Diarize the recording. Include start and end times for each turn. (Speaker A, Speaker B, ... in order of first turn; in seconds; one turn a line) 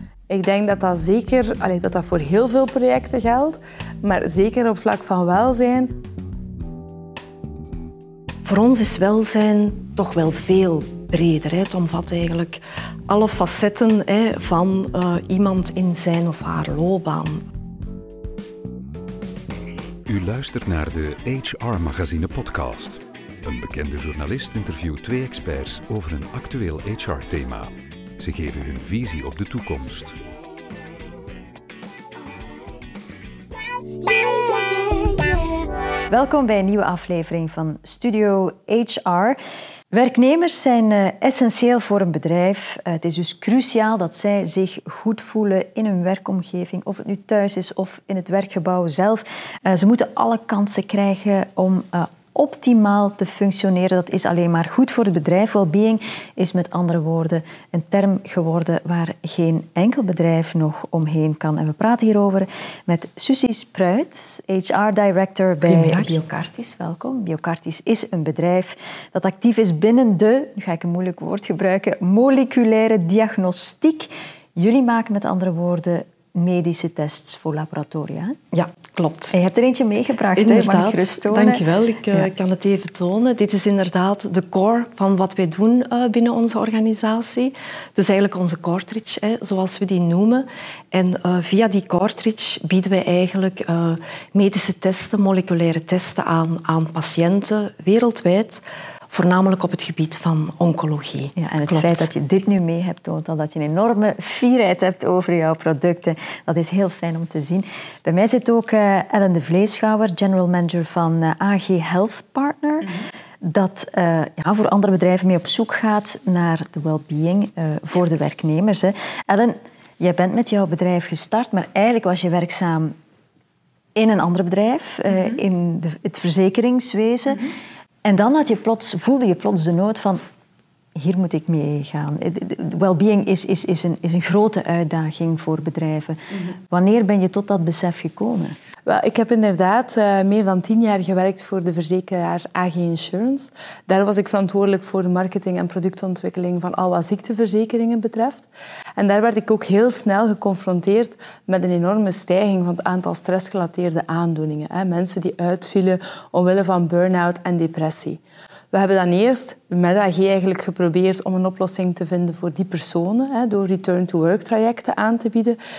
Speaker A: 0.3-6.0
Speaker B: 8.4-17.4
Speaker C: 20.1-30.2
Speaker D: 34.3-35.0
Speaker D: 36.1-39.4
Speaker D: 39.9-78.3
Speaker B: 65.6-66.2
Speaker B: 78.5-79.3
Speaker D: 79.3-82.3
Speaker B: 80.3-102.1
Speaker D: 101.3-122.9
Speaker D: 123.9-127.5
Speaker D: 128.0-130.2
Speaker D: 130.9-138.5
Speaker A: 138.8-158.2
Speaker A: 158.7-165.6